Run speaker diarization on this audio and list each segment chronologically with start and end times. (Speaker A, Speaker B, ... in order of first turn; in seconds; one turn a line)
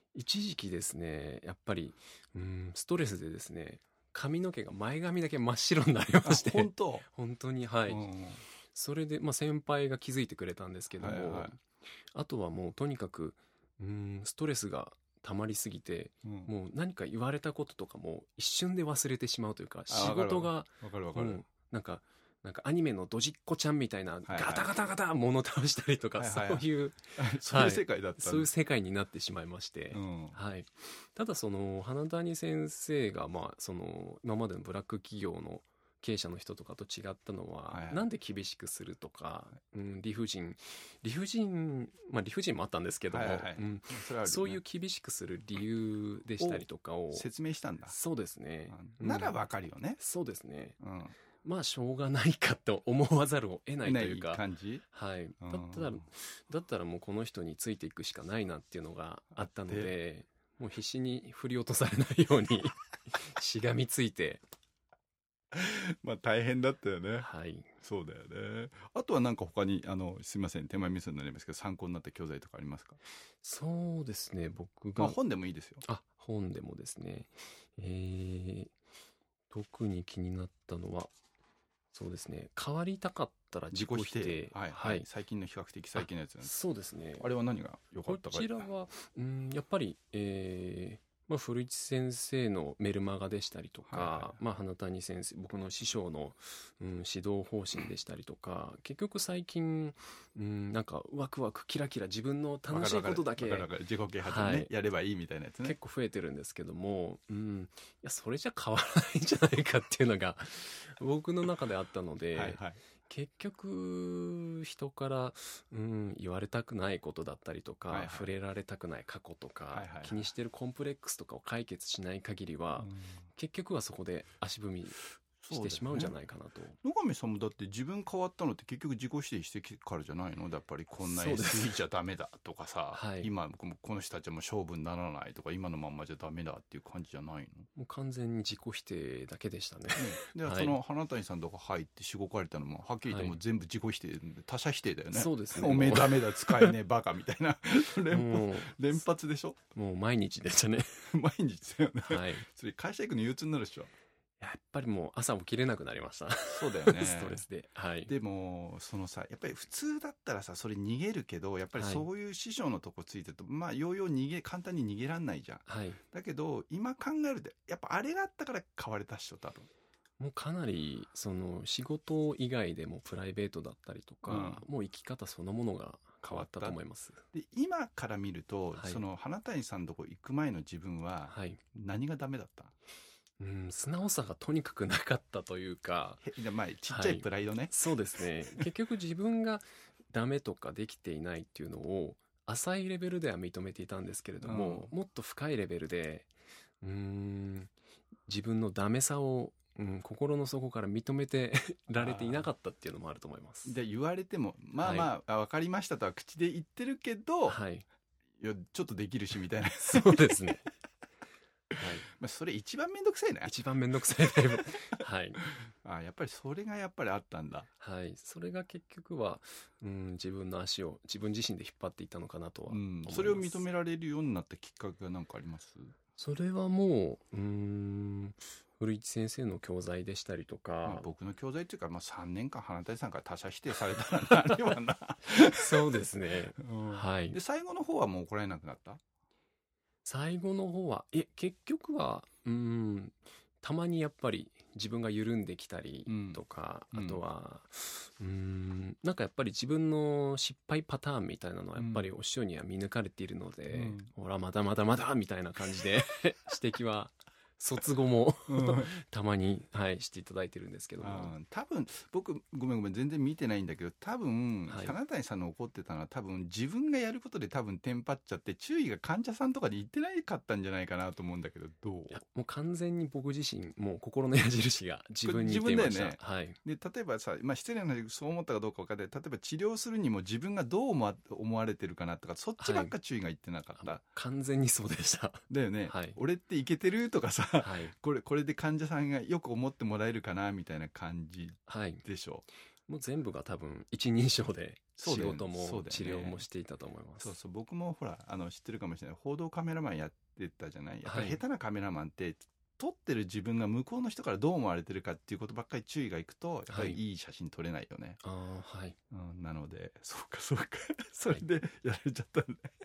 Speaker A: 0.1-8.0
Speaker B: 6.2-7.0
Speaker B: 7.9-8.4
Speaker A: 8.7-11.6
Speaker B: 11.0-11.5
Speaker A: 12.1-47.3
Speaker B: 16.2-16.5
Speaker B: 19.9-21.4
Speaker B: 24.3-24.7
Speaker B: 26.2-28.5
Speaker B: 29.9-30.4
Speaker B: 37.7-38.0
Speaker B: 43.1-44.6
Speaker B: 46.4-47.9
Speaker A: 47.9-49.4
Speaker B: 48.7-50.0
Speaker A: 50.0-50.8
Speaker B: 50.8-51.1
Speaker A: 51.4-64.4
Speaker B: 53.8-54.8
Speaker B: 55.4-56.0
Speaker B: 59.4-59.9
Speaker B: 65.5-67.3
Speaker A: 67.2-67.7
Speaker B: 67.8-73.0
Speaker A: 73.4-75.2
Speaker B: 75.0-75.8
Speaker A: 75.8-78.7
Speaker A: 79.5-81.1
Speaker A: 81.9-85.1
Speaker B: 83.7-86.5
Speaker A: 86.0-87.3
Speaker B: 87.2-88.6
Speaker A: 88.0-103.7
Speaker B: 93.9-94.3
Speaker B: 102.7-105.8
Speaker A: 104.2-104.7
Speaker A: 105.6-125.0
Speaker B: 112.3-112.8
Speaker B: 117.9-118.3
Speaker B: 119.7-120.3
Speaker B: 122.8-123.2
Speaker B: 125.4-126.1
Speaker A: 125.5-126.8
Speaker B: 126.8-137.7
Speaker A: 131.0-131.7
Speaker A: 132.9-133.3
Speaker A: 137.8-140.8
Speaker B: 140.0-149.6
Speaker A: 143.1-143.3
Speaker A: 145.1-146.7
Speaker A: 148.1-149.0
Speaker A: 149.7-151.1
Speaker B: 151.1-153.9
Speaker A: 152.0-152.4
Speaker A: 154.4-158.1
Speaker B: 156.5-157.4
Speaker B: 158.1-169.7
Speaker A: 161.8-162.1
Speaker A: 165.7-166.0
Speaker A: 170.2-177.2
Speaker B: 174.3-174.6
Speaker B: 176.2-176.8
Speaker B: 177.3-182.7
Speaker A: 178.7-179.0
Speaker A: 181.3-181.6
Speaker A: 183.4-186.2
Speaker B: 186.2-187.7
Speaker A: 186.9-196.3
Speaker B: 194.4-194.9
Speaker A: 196.8-197.7
Speaker A: 198.3-203.8
Speaker B: 202.0-202.5
Speaker B: 203.6-207.6
Speaker A: 204.8-205.1
Speaker A: 207.5-207.8
Speaker B: 208.4-210.4
Speaker A: 209.8-210.6
Speaker A: 211.8-212.1
Speaker B: 212.2-213.5
Speaker A: 213.4-215.4
Speaker B: 215.8-217.7
Speaker A: 217.8-223.6
Speaker B: 222.7-225.9
Speaker A: 226.2-231.1
Speaker B: 230.8-239.0
Speaker A: 235.5-237.4
Speaker A: 240.0-261.3
Speaker B: 246.1-246.4
Speaker B: 246.9-247.2
Speaker B: 251.8-252.1
Speaker B: 253.7-254.1
Speaker B: 258.5-258.9
Speaker B: 261.0-272.2
Speaker A: 264.7-264.9
Speaker A: 272.1-276.6
Speaker B: 275.2-284.0
Speaker A: 282.6-282.9
Speaker A: 283.8-286.2
Speaker B: 285.5-292.4
Speaker A: 287.6-287.9
Speaker A: 291.7-292.0
Speaker A: 292.9-297.4
Speaker B: 295.0-296.4
Speaker B: 297.2-308.2
Speaker A: 301.0-301.4
Speaker A: 306.7-307.0
Speaker A: 308.2-309.0
Speaker B: 309.1-312.7
Speaker A: 311.2-311.4